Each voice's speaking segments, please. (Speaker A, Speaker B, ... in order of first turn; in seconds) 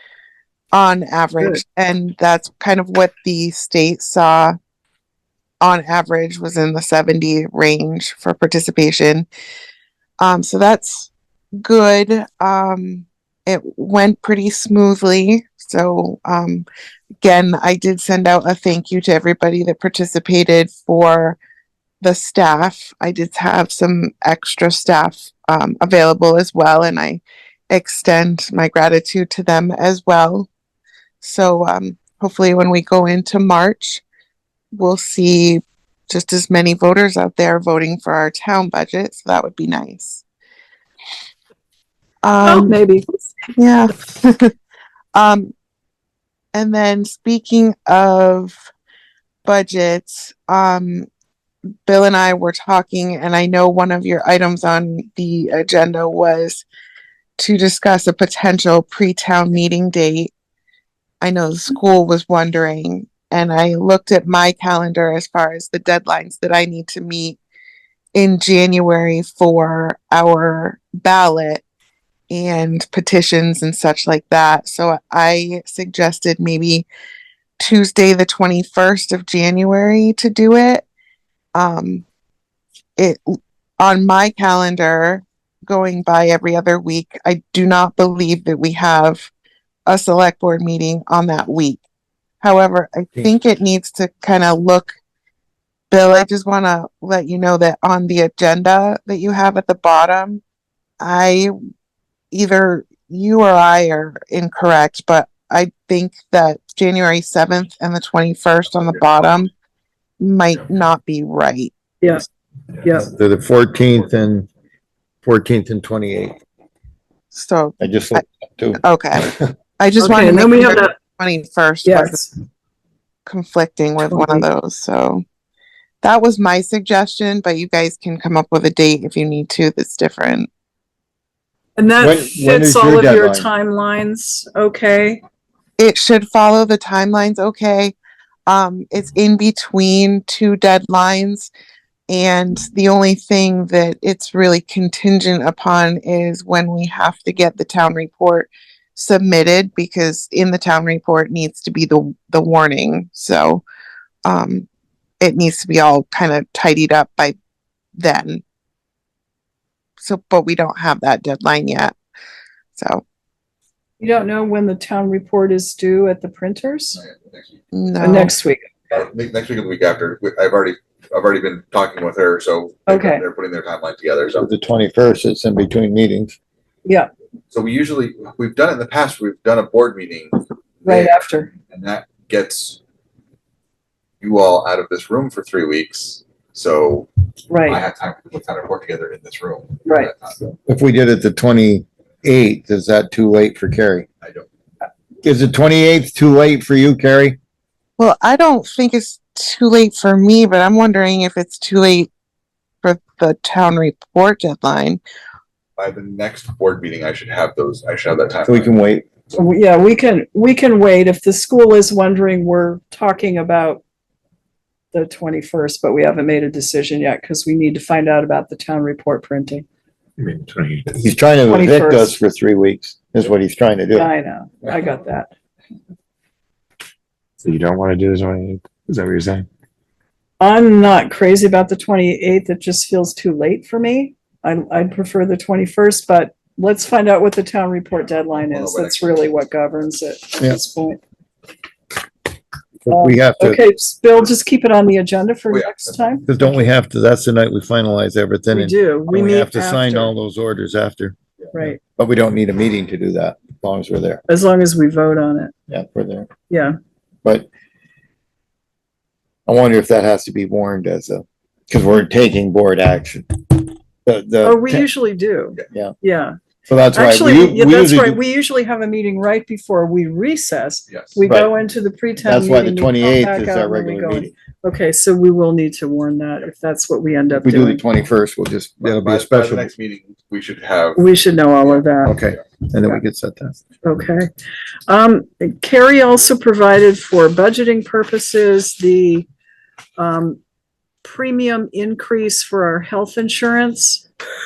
Speaker A: 0.7-4.5, 5.6-9.3, 10.2-11.1, 11.6-16.7, 17.2-21.4, 22.0-30.5, 31.2-34.0, 34.7-40.2, 42.2-42.8, 43.6-44.5, 45.1-45.5, 46.5-48.6, 49.5-51.1, 51.9-56.6, 57.4-60.3, 61.2-67.4, 68.2-71.6, 72.3-76.9, 77.6-80.9, 81.5-82.0, 83.0-89.3, 89.9-91.8, 92.4-94.9, 95.9-100.4, 101.0-101.5, 102.3-109.5, 110.2-112.2, 117.3-118.2, 118.8-122.2, 123.3-125.2, 126.0-130.5, 135.8-137.9, 138.5-141.5, 142.1-153.6, 154.2-154.7, 155.2-157.4, 158.0-158.4, 160.0-161.9, 162.8-163.0, 167.7-168.3, 198.0-202.1, 202.8-205.0
Speaker B: 42.4-43.1, 112.8-113.1, 120.0-121.0, 121.8-122.3, 124.1-124.5, 131.8-135.2, 164.0-167.0, 168.0-169.0, 172.9-173.2, 180.8-181.5, 187.5-187.8, 189.8-190.1, 209.3-213.8, 214.9-219.7, 221.5-222.2, 223.9-225.3, 230.4-241.0, 242.9-246.2, 248.5-250.1, 251.5-251.8, 254.3-255.5, 256.5-256.8, 264.4-266.4, 266.9-277.8, 281.0-282.2, 283.8-284.3, 284.9-289.3, 290.0-290.4, 291.0-294.1
Speaker C: 112.9-114.5, 115.2-116.4, 117.8-119.5, 132.0-133.5, 174.4-176.4, 190.7-194.1, 195.2-197.4, 208.5-209.1, 221.0-224.1, 242.8-243.6, 246.3-254.2, 255.7-256.3, 259.5-264.9, 266.7-268.2, 271.3-271.6, 272.2-274.4, 277.4-279.7, 282.1-283.6
Speaker D: 167.0-167.6, 168.9-174.5, 177.5-181.2, 181.7-182.8, 184.2-187.1, 187.6-190.6, 194.2-194.5, 205.8-208.7, 238.3-239.4, 245.5-246.2, 278.9-281.1, 281.6-282.4
Speaker E: 220.2-221.1, 227.4-229.5